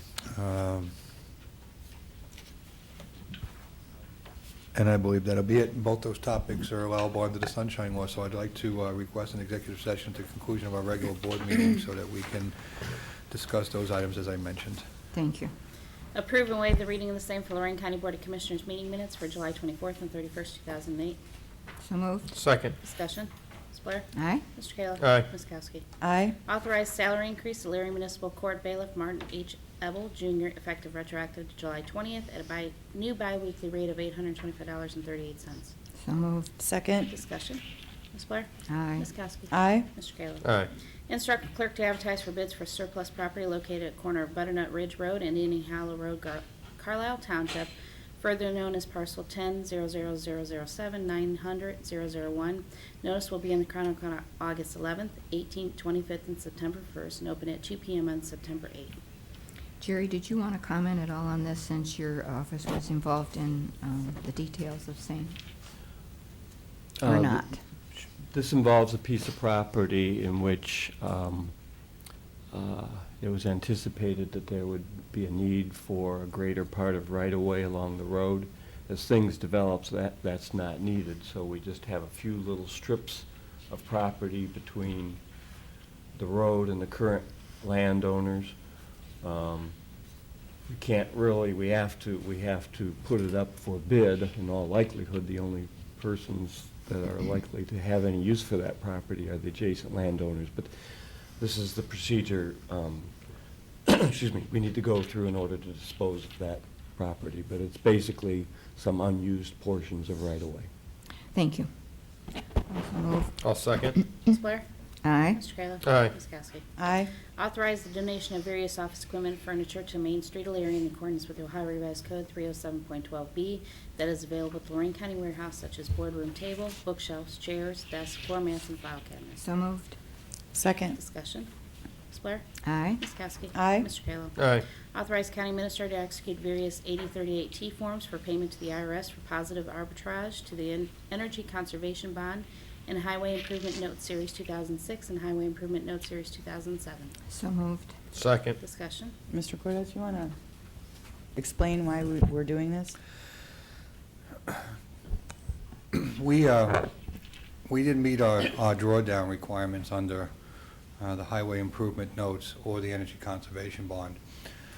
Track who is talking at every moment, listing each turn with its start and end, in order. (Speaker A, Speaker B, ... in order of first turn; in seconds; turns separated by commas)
Speaker A: 0.3-0.9, Speaker A: 4.8-14.8, Speaker B: 15.1-15.5, Speaker C: 16.1-21.2, Speaker B: 21.8-22.3, Speaker D: 22.3-22.8, Speaker C: 22.8-25.8, Speaker B: 24.1-24.4, Speaker D: 25.0-25.3, Speaker E: 26.0-26.4, Speaker C: 26.4-35.7, Speaker B: 36.0-36.5, Speaker E: 36.6-37.1, Speaker C: 37.1-37.6, Speaker C: 38.1-40.5, Speaker B: 38.7-39.1, Speaker E: 39.5-39.9, Speaker D: 40.4-40.7, Speaker C: 41.1-59.0, Speaker B: 59.8-65.4, Speaker F: 67.0-71.5, Speaker B: 67.0-67.6, Speaker F: 72.5-85.2, Speaker F: 86.2-88.5, Speaker F: 89.2-89.8, Speaker F: 90.7-103.1, Speaker F: 103.8-110.7, Speaker B: 111.3-111.7, Speaker B: 112.7-113.4, Speaker D: 113.4-114.0, Speaker C: 114.2-114.7, Speaker B: 115.0-115.4, Speaker C: 115.3-116.6, Speaker D: 115.8-116.2, Speaker E: 116.8-117.1, Speaker C: 117.3-129.4, Speaker B: 129.4-130.0, Speaker E: 130.5-131.0, Speaker C: 130.9-131.5, Speaker C: 132.1-147.2, Speaker B: 132.6-133.0, Speaker E: 133.5-133.9, Speaker D: 134.4-134.7, Speaker B: 147.3-147.9, Speaker D: 148.1-148.6, Speaker C: 148.6-149.2, Speaker E: 149.3-150.3, Speaker E: 151.4-153.0, Speaker A: 155.9-156.9, Speaker A: 157.7-160.3, Speaker A: 161.0-164.2